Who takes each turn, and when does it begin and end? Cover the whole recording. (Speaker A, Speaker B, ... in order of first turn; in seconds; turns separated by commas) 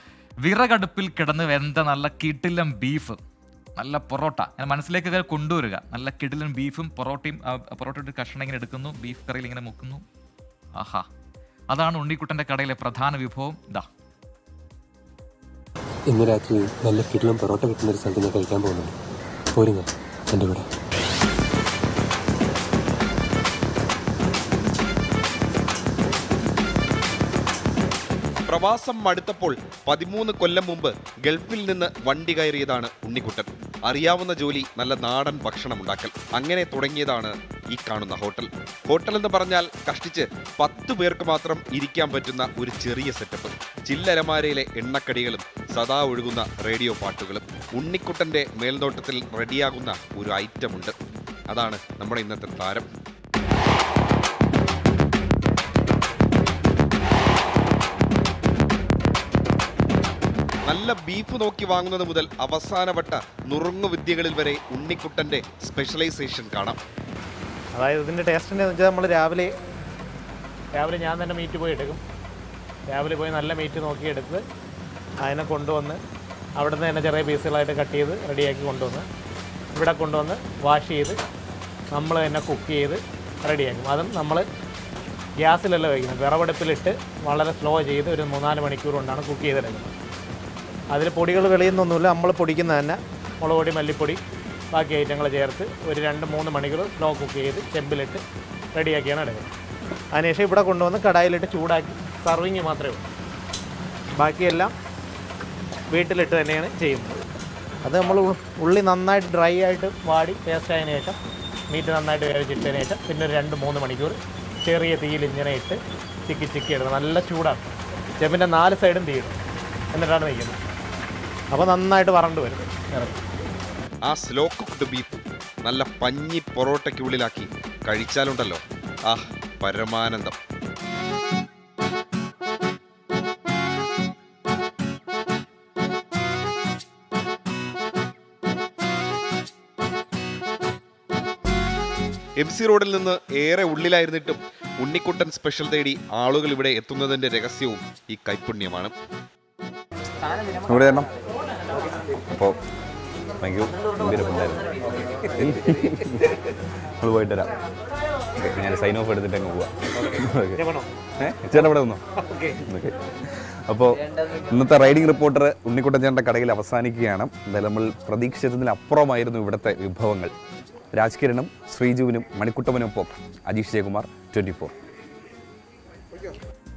Speaker A: 0.4-3.2, Speaker A: 3.8-10.0, Speaker A: 10.8-11.1, Speaker A: 11.7-13.9, Speaker B: 16.1-18.9, Speaker B: 19.5-20.7, Speaker C: 28.5-51.0, Speaker C: 51.5-52.9, Speaker C: 60.7-66.8, Speaker D: 67.8-69.5, Speaker D: 70.8-72.0, Speaker D: 72.9-74.4, Speaker D: 75.2-76.0, Speaker D: 76.6-79.1, Speaker D: 79.8-81.2, Speaker D: 81.9-84.5, Speaker D: 85.4-89.9, Speaker D: 90.9-94.2, Speaker D: 94.7-98.2, Speaker D: 98.8-99.5, Speaker D: 100.2-103.0, Speaker D: 104.2-104.7, Speaker D: 105.9-107.2, Speaker D: 107.8-111.2, Speaker D: 111.7-117.7, Speaker D: 118.2-119.4, Speaker D: 119.9-120.6, Speaker D: 121.5-123.2, Speaker C: 124.0-130.4, Speaker C: 142.4-148.9, Speaker E: 150.6-151.1, Speaker E: 152.3-152.6, Speaker E: 153.4-156.4, Speaker E: 157.0-157.5, Speaker E: 158.4-160.6, Speaker D: 160.6-160.9, Speaker E: 161.2-162.0, Speaker D: 162.2-162.6, Speaker E: 162.6-170.3, Speaker E: 170.9-174.7